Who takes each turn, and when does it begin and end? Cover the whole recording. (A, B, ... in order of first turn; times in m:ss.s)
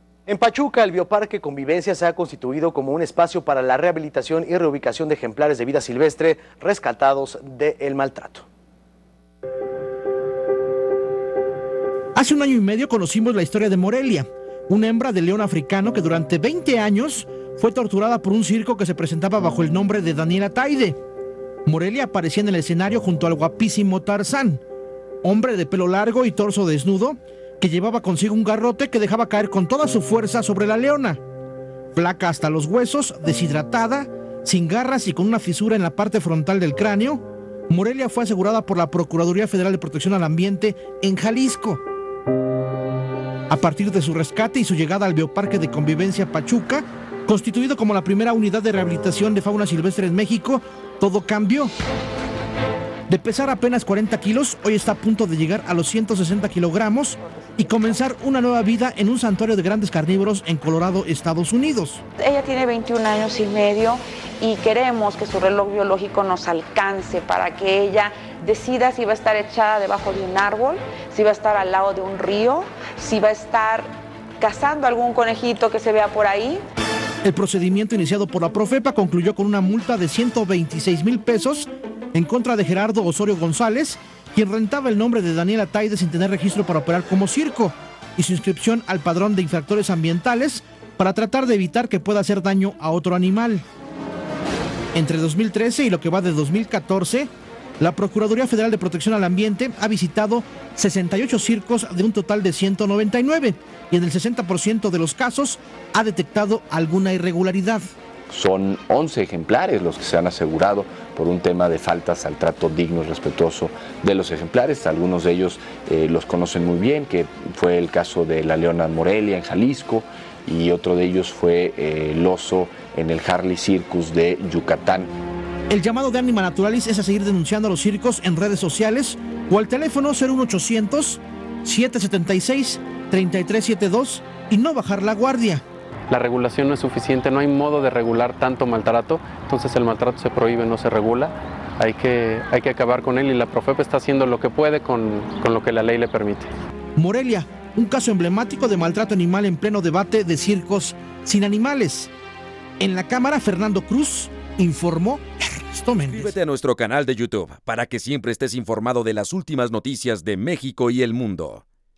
0:00.3-0:08.5 A
0:12.1-0:21.0 B
0:21.6-0:24.6 B
0:25.2-0:31.2 B
0:31.9-0:41.8 B
0:43.5-0:51.7 B
0:53.1-1:02.0 B
0:57.5-0:57.8 C
1:02.2-1:16.6 C
1:17.2-1:33.6 B
1:34.9-1:47.8 B
1:48.3-2:05.1 D
2:05.7-2:15.6 B
2:16.1-2:26.5 E
2:27.0-2:32.1 B
2:32.8-2:36.3 B
2:36.0-2:41.6 F